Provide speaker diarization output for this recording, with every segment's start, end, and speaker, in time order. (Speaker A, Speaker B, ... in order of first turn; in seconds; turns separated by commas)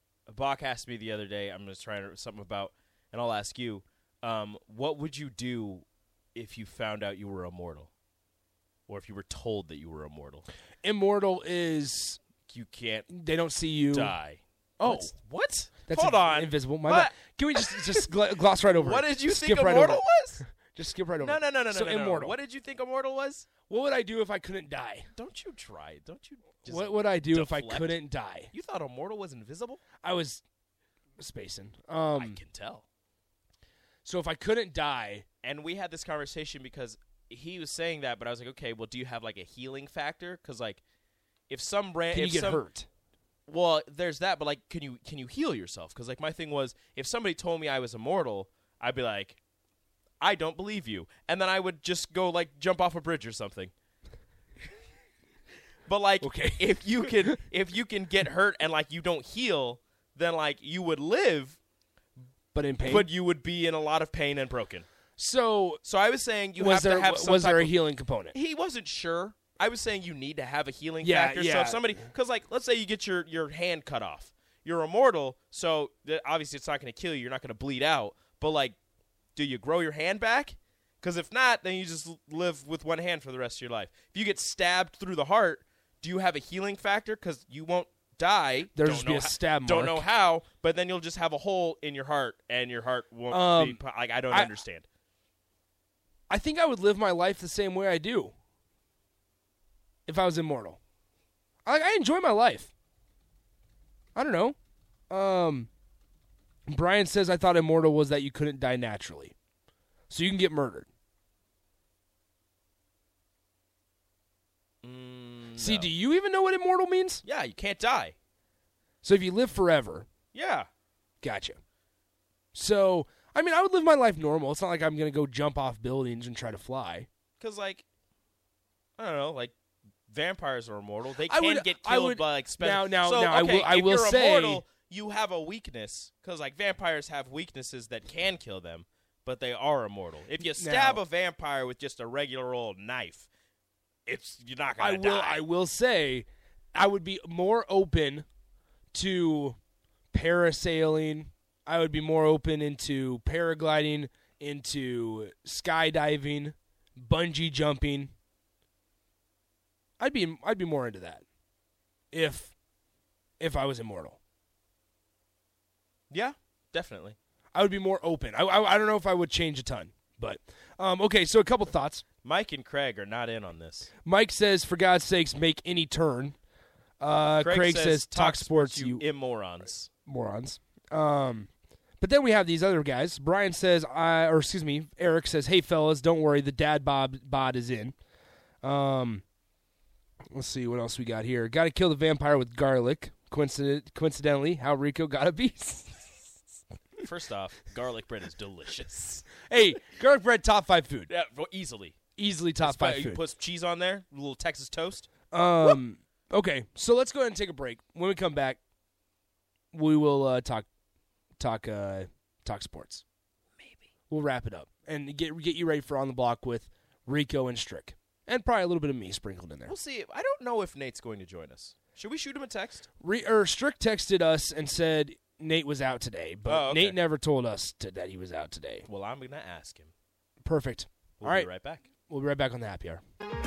Speaker A: 0.3-7.9, Speaker A: 8.9-10.5, Speaker B: 10.8-12.2, Speaker A: 12.5-13.1, Speaker B: 13.1-14.2, Speaker A: 13.9-18.1, Speaker B: 14.8-15.1, Speaker B: 15.9-22.4, Speaker A: 18.7-20.4, Speaker A: 21.2-23.5, Speaker B: 23.7-25.1, Speaker A: 25.1-28.0, Speaker B: 26.6-28.5, Speaker A: 28.5-29.8, Speaker B: 30.0-30.4, Speaker B: 31.2-32.4, Speaker A: 32.1-32.9, Speaker B: 34.0-35.2, Speaker A: 35.4-40.8, Speaker A: 41.5-42.6, Speaker B: 42.1-42.9, Speaker A: 43.5-49.4, Speaker A: 50.2-53.7, Speaker A: 55.9-61.6, Speaker B: 56.2-57.4, Speaker B: 62.5-63.1, Speaker A: 62.8-64.9, Speaker B: 65.2-65.8, Speaker A: 65.8-67.8, Speaker B: 66.6-68.3, Speaker A: 68.3-78.8, Speaker B: 71.0-72.0, Speaker A: 79.3-94.9, Speaker B: 88.7-90.0, Speaker B: 93.3-94.6, Speaker B: 96.3-98.3, Speaker B: 100.1-100.8, Speaker B: 101.6-102.7, Speaker B: 104.1-104.5, Speaker B: 105.1-105.7, Speaker B: 106.7-109.3, Speaker B: 110.1-110.9, Speaker A: 114.8-115.9, Speaker B: 115.6-117.2, Speaker A: 117.2-118.1, Speaker B: 119.0-120.1, Speaker A: 120.3-120.7, Speaker B: 121.2-121.6, Speaker B: 122.5-127.1, Speaker A: 127.4-127.8, Speaker A: 129.0-129.5, Speaker A: 130.1-143.3, Speaker B: 131.2-134.6, Speaker B: 140.5-141.0, Speaker A: 144.1-145.4, Speaker B: 144.8-148.2, Speaker B: 148.9-149.6, Speaker B: 150.1-158.1, Speaker B: 160.0-161.2, Speaker B: 162.1-162.5, Speaker B: 163.4-164.2, Speaker A: 166.1-167.2, Speaker B: 167.5-172.0, Speaker A: 172.2-173.9, Speaker B: 174.0-176.3, Speaker B: 177.0-179.0, Speaker A: 177.3-179.9, Speaker B: 180.1-181.5, Speaker B: 182.0-187.9, Speaker B: 188.6-189.2, Speaker B: 190.3-196.1, Speaker A: 197.0-199.4, Speaker B: 199.5-201.1, Speaker A: 201.1-201.9, Speaker B: 202.2-203.2, Speaker A: 202.6-205.1, Speaker B: 205.3-208.6, Speaker B: 209.7-210.7, Speaker B: 211.4-213.0, Speaker A: 213.6-213.9, Speaker B: 214.1-219.7, Speaker A: 219.7-222.9, Speaker B: 223.0-228.9, Speaker A: 226.4-227.0, Speaker A: 228.8-229.9, Speaker B: 230.4-231.5, Speaker A: 231.2-231.9, Speaker B: 232.1-233.0